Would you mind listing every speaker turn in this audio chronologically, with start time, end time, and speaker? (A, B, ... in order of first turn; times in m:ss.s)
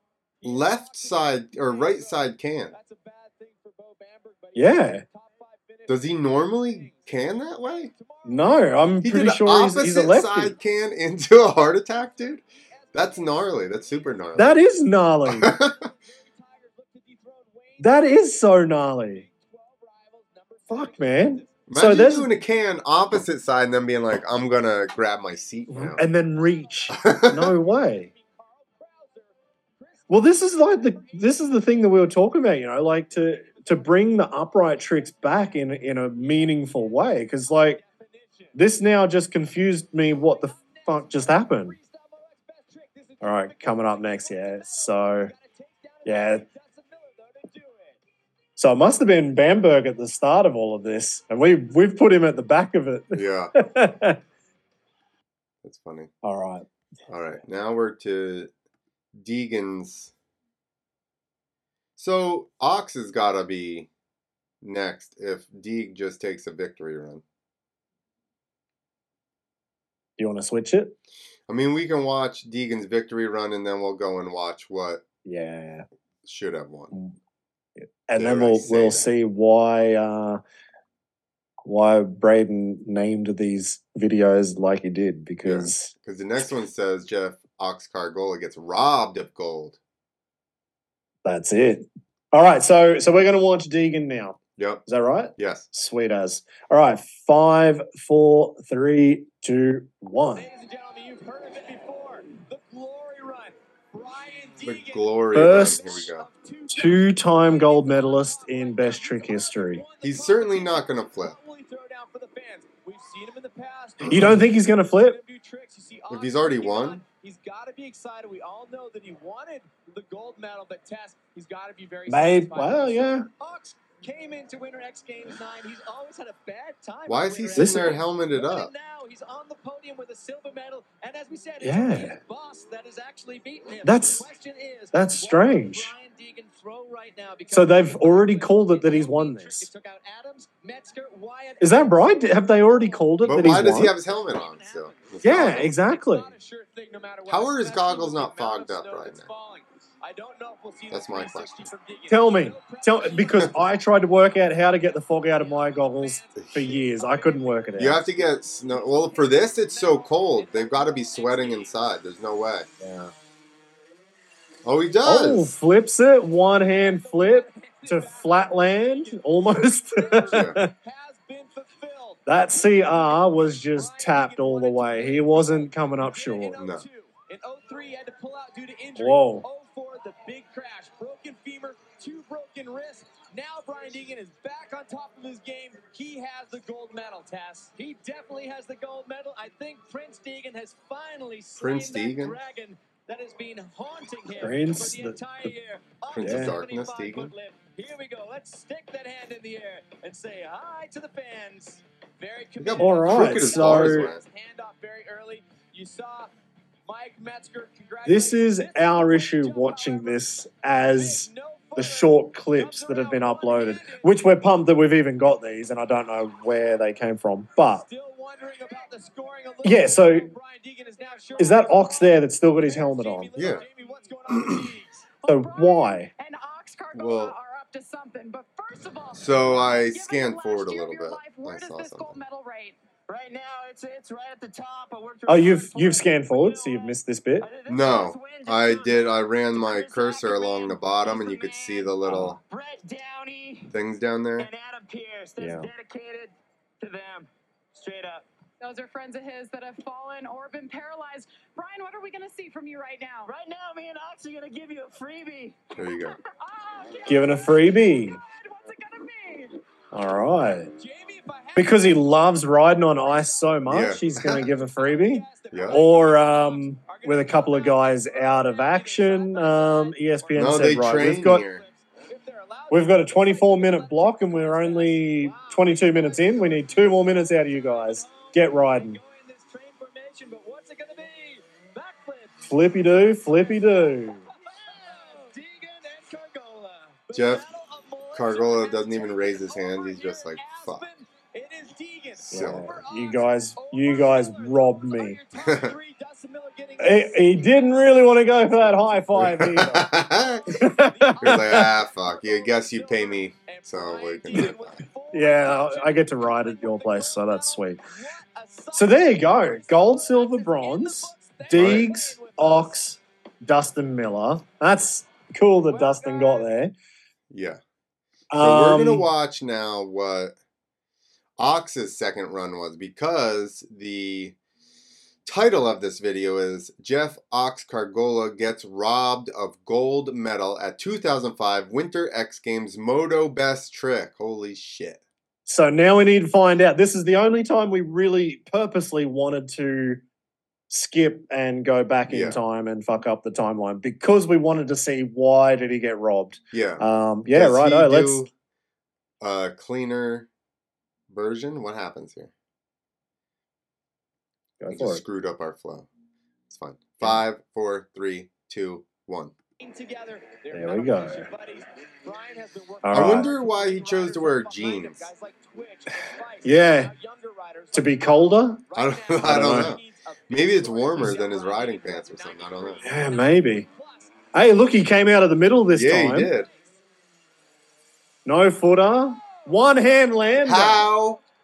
0:00.4-0:09.0 A
0:00.4-0:02.7 B
0:04.6-0:05.0 C
0:05.9-0:07.9 B
0:08.2-0:10.5 C
0:09.0-0:12.4 B
0:11.8-0:14.6 A
0:12.9-0:14.5 B
0:14.4-0:15.5 C
0:15.3-0:15.8 B
0:15.4-0:21.9 A
0:17.8-0:19.2 C
0:20.7-0:22.3 C
0:21.7-0:26.0 B
0:24.6-0:32.2 A
0:25.7-0:28.1 C
0:26.9-0:27.5 B
0:30.1-0:37.8 C
0:33.1-0:34.3 A
0:35.0-0:35.4 A
0:36.0-0:38.6 A
0:38.5-0:41.8 C
0:40.0-0:48.0 A
0:43.2-0:45.3 C
0:46.1-0:46.4 C
0:48.6-0:54.2 C
0:53.1-0:53.5 B
0:55.6-0:56.1 B
0:56.2-0:56.7 C
0:57.1-0:58.5 B
0:59.2-1:00.1 B
1:02.0-1:03.9 B
1:04.6-1:07.2 B
1:10.2-1:11.0 C
1:11.5-1:15.0 B
1:15.2-1:15.9 C
1:16.2-1:16.9 B
1:17.8-1:20.4 C
1:18.2-1:19.1 B
1:21.6-1:25.9 C
1:25.4-1:29.8 B
1:31.2-1:40.5 C
1:34.6-1:34.8 B
1:35.4-1:35.7 B
1:40.4-2:42.2 A
1:44.6-1:46.3 B
1:45.4-1:46.1 C
1:46.7-1:49.8 C
1:50.0-1:51.4 B
1:54.1-1:55.2 C
1:56.1-1:57.0 B
2:02.1-2:03.3 C
2:07.1-2:08.7 B
2:07.6-2:08.0 C
2:11.6-2:12.2 C
2:13.8-2:14.2 C
2:14.9-2:15.9 C
2:17.5-2:19.7 C
2:21.6-2:23.9 C
2:23.2-2:25.7 B
2:25.2-2:26.3 C
2:27.3-2:29.3 B
2:30.9-2:31.7 B
2:32.1-2:38.1 C
2:37.8-2:42.7 B
2:42.8-2:43.1 C
2:44.6-2:45.5 B
2:45.0-2:50.7 C
2:46.6-3:26.3 A
2:50.3-2:50.6 B
2:52.3-2:56.6 C
2:56.6-2:56.9 B
2:59.0-2:59.4 C
3:11.6-3:12.4 B
3:14.4-3:15.5 C
3:16.1-3:17.3 B
3:16.2-3:16.6 C
3:22.6-3:24.2 B
3:22.8-3:24.1 C
3:26.9-3:34.1 A
3:28.0-3:37.9 C
3:37.7-3:45.1 A
3:39.6-3:40.3 C
3:41.4-3:43.3 C
3:43.4-3:43.6 B
3:45.2-3:52.8 D
3:45.3-3:46.1 C
3:46.9-3:47.4 B
3:49.1-3:52.2 B
3:53.1-3:56.9 E
3:55.3-3:57.5 C
3:57.4-4:03.7 E
3:57.7-4:02.4 B
4:02.1-4:02.4 C
4:03.7-4:04.5 B
4:04.4-4:08.3 E
4:05.4-4:05.7 C
4:08.6-4:13.3 D
4:13.2-4:15.8 E
4:15.8-4:16.2 B
4:16.4-4:19.6 D
4:17.1-4:18.2 C
4:19.9-4:20.7 C
4:20.8-4:59.3 A
4:21.6-4:31.4 C
4:23.7-4:24.5 B
4:25.5-4:25.8 B
4:30.4-4:31.6 B
4:32.7-4:39.0 C
4:42.4-4:44.3 C
4:47.1-4:47.5 B
4:48.1-4:50.8 B
4:52.2-4:52.6 B
4:52.3-4:55.2 C
4:55.4-4:55.8 B
4:56.8-4:59.9 C
4:59.1-5:00.6 B
5:00.2-5:12.9 A
5:00.5-5:01.7 C
5:01.2-5:04.8 B
5:05.1-5:07.8 C
5:08.7-5:16.7 C
5:11.5-5:11.9 B
5:15.7-5:16.6 A
5:17.3-5:17.6 B
5:18.3-5:19.1 C
5:18.4-5:20.4 B
5:21.4-5:24.4 B
5:25.2-5:35.0 B
5:35.5-5:40.0 C
5:40.7-5:48.3 C
5:42.1-5:42.4 B
5:46.5-5:48.3 B
5:49.2-5:50.3 B
5:51.1-5:52.3 B
5:54.6-5:55.0 C
5:54.7-5:55.9 B
5:56.5-5:59.3 B
5:59.6-6:14.3 A
6:00.5-6:01.3 C
6:02.8-6:03.3 C
6:02.9-6:05.1 B
6:06.4-6:06.9 C
6:07.7-6:08.6 C
6:08.7-6:12.8 B
6:09.2-6:09.7 C
6:12.8-6:13.7 C
6:14.3-6:16.3 C
6:15.8-6:16.5 B
6:16.2-6:16.8 A
6:18.3-6:20.9 C
6:19.2-6:19.5 A
6:20.4-6:21.2 B